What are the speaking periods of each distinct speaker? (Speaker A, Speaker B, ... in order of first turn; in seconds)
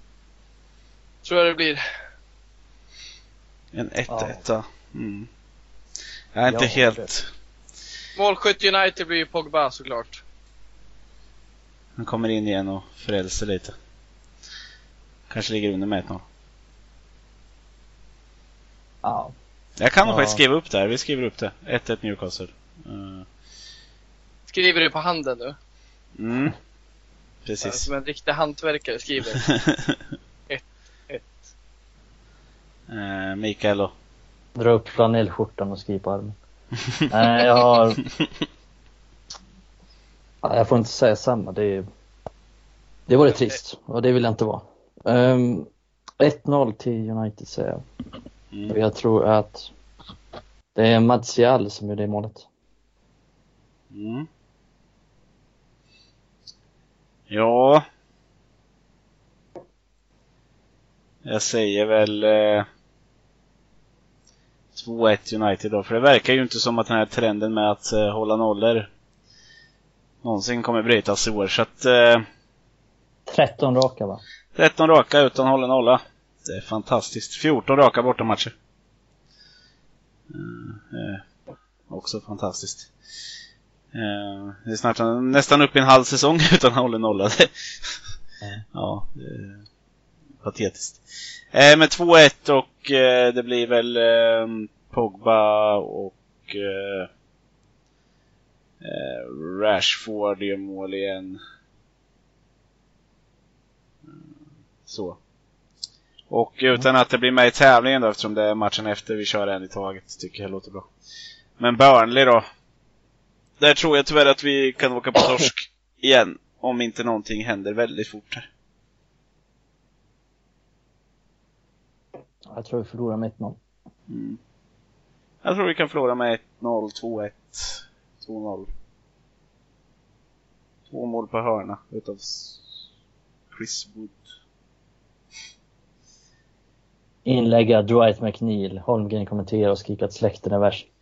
Speaker A: 1.2-1.8, 8.2-10.2, 24.5-25.6, 27.6-29.6, 30.5-31.5
Speaker B: 3.7-5.3, 6.3-7.3, 12.0-13.8, 15.3-16.2, 19.8-23.2, 26.2-26.6, 27.5-27.9, 29.6-29.9, 32.9-33.9, 48.5-48.8, 53.9-54.3, 57.3-57.8, 61.2-62.7, 64.8-68.9, 70.2-72.2, 74.5-78.5, 80.3-81.2, 81.9-82.9, 83.9-88.0, 88.7-89.6, 90.4-91.0, 91.5-97.1, 98.8-101.4, 104.9-105.2, 106.3-110.9, 111.6-112.5, 113.6-118.5, 124.1-124.4, 125.4-128.7, 130.9-132.6, 133.5-134.3
Speaker C: 4.1-4.4, 6.5-7.1, 19.0-19.3, 20.1-20.4, 34.6-36.4, 37.1-38.0, 40.4-41.9, 43.1-45.7, 46.2-47.8, 48.7-49.7, 50.8-52.5, 73.3-74.2, 122.5-123.6, 137.2-140.9